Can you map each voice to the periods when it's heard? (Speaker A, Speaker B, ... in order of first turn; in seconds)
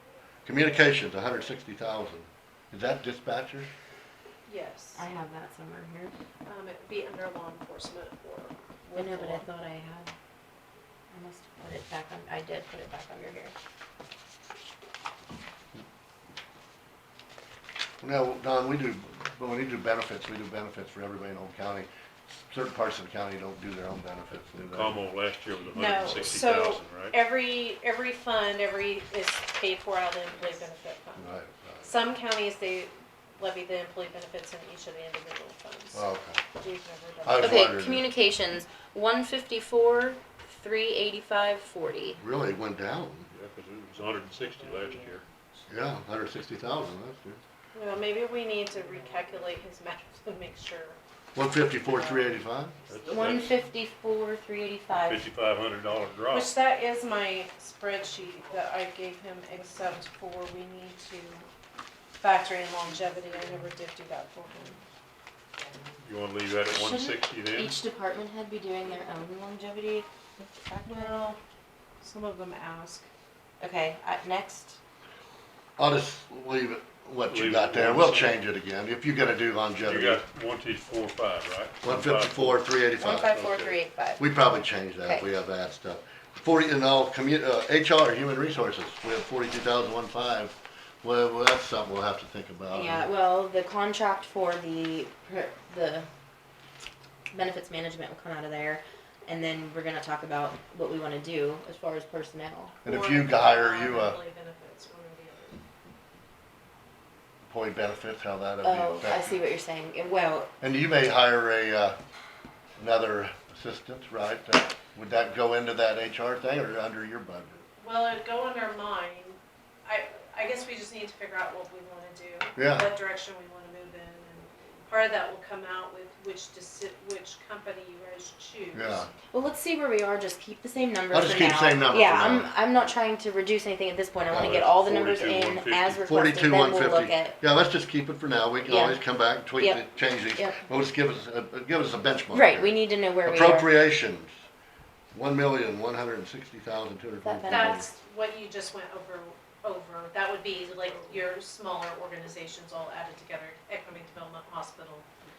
Speaker A: 0.5-3.7, 18.0-25.0, 31.2-31.9, 35.9-36.4, 37.2-38.1, 42.2-43.3, 45.7-47.4, 51.3-52.8, 75.8-80.2, 81.8-83.4, 84.2-93.1, 102.8-104.2, 107.5-109.4, 110.6-112.0, 112.8-117.6, 122.6-122.9, 128.7-129.1, 131.1-132.5, 136.0-144.3, 145.1-147.8
Speaker B: 4.5-5.0, 6.5-9.4, 25.7-31.2, 31.8-37.7, 47.7-51.0, 56.3-61.5, 62.2-64.8, 70.8-71.4, 72.0-73.1, 102.8-105.6, 117.8-129.1, 147.5-155.1
Speaker C: 5.0-6.1, 8.9-10.1, 11.1-13.5, 37.4-42.2, 53.1-55.2, 66.7-71.3, 73.6-74.8, 83.0-84.2, 85.0-85.2, 92.7-96.1, 97.3-102.7, 108.6-110.5, 129.3-137.4, 138.6-139.0, 139.5-139.8, 140.3-140.6, 142.3-143.8, 147.2-147.8
Speaker D: 24.6-27.1, 43.3-45.2, 52.9-53.6, 54.9-56.5, 66.0-67.8, 77.2-78.4, 79.8-82.7, 83.2-83.8, 134.3-136.1